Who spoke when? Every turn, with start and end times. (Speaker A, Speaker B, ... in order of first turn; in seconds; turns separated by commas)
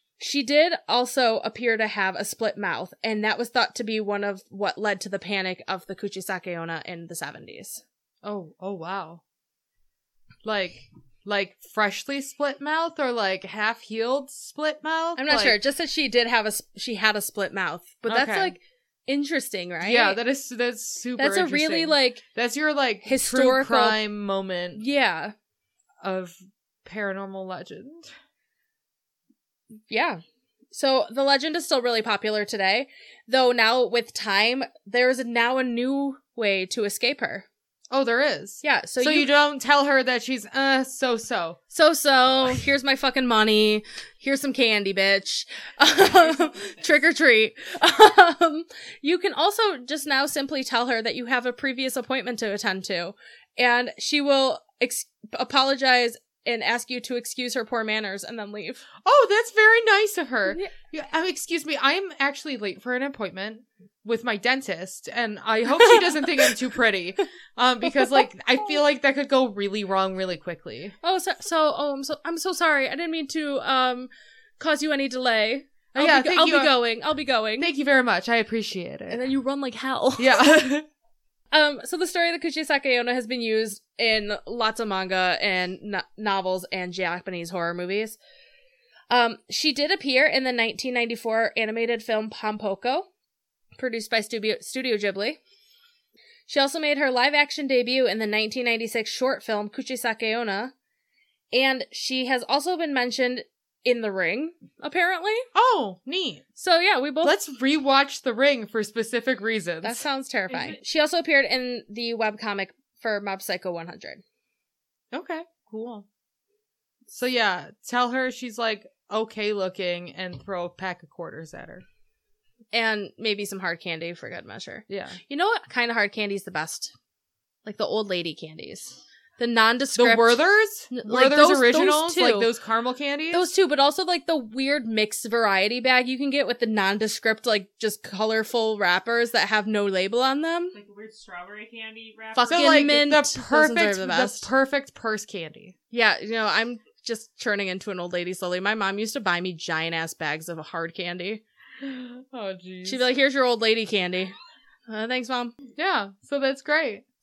Speaker A: 0.2-7.8, Speaker B: 8.2-9.2, Speaker B: 10.4-15.6, Speaker A: 15.2-20.2, Speaker B: 18.1-18.6, Speaker B: 19.8-24.8, Speaker A: 21.2-22.2, Speaker A: 23.0-24.0, Speaker A: 24.8-25.3, Speaker B: 26.0-28.1, Speaker A: 29.9-30.2, Speaker A: 30.7-37.5, Speaker B: 37.9-41.6, Speaker A: 38.6-39.3, Speaker A: 41.7-58.9, Speaker C: 46.0-46.9, Speaker B: 59.0-71.0, Speaker A: 65.8-66.5, Speaker A: 67.9-68.2, Speaker A: 71.0-77.7, Speaker B: 75.9-76.8, Speaker B: 77.6-79.2, Speaker A: 79.1-80.5, Speaker B: 80.2-80.9, Speaker A: 81.5-88.2, Speaker A: 89.1-93.1, Speaker A: 93.8-95.4, Speaker A: 96.5-100.7, Speaker A: 101.5-105.5, Speaker B: 105.5-106.4, Speaker A: 106.6-107.3, Speaker B: 107.2-110.0, Speaker A: 109.8-114.2, Speaker C: 110.5-110.8, Speaker B: 115.1-116.1, Speaker B: 117.1-121.8, Speaker A: 122.7-126.9, Speaker B: 124.9-125.2, Speaker A: 127.7-132.5, Speaker B: 130.0-133.5, Speaker A: 133.3-140.8, Speaker C: 140.7-142.8, Speaker A: 142.3-144.5, Speaker B: 142.5-145.8, Speaker A: 145.9-151.4, Speaker B: 151.8-153.0, Speaker A: 152.8-154.3, Speaker A: 154.9-155.5, Speaker B: 155.8-157.0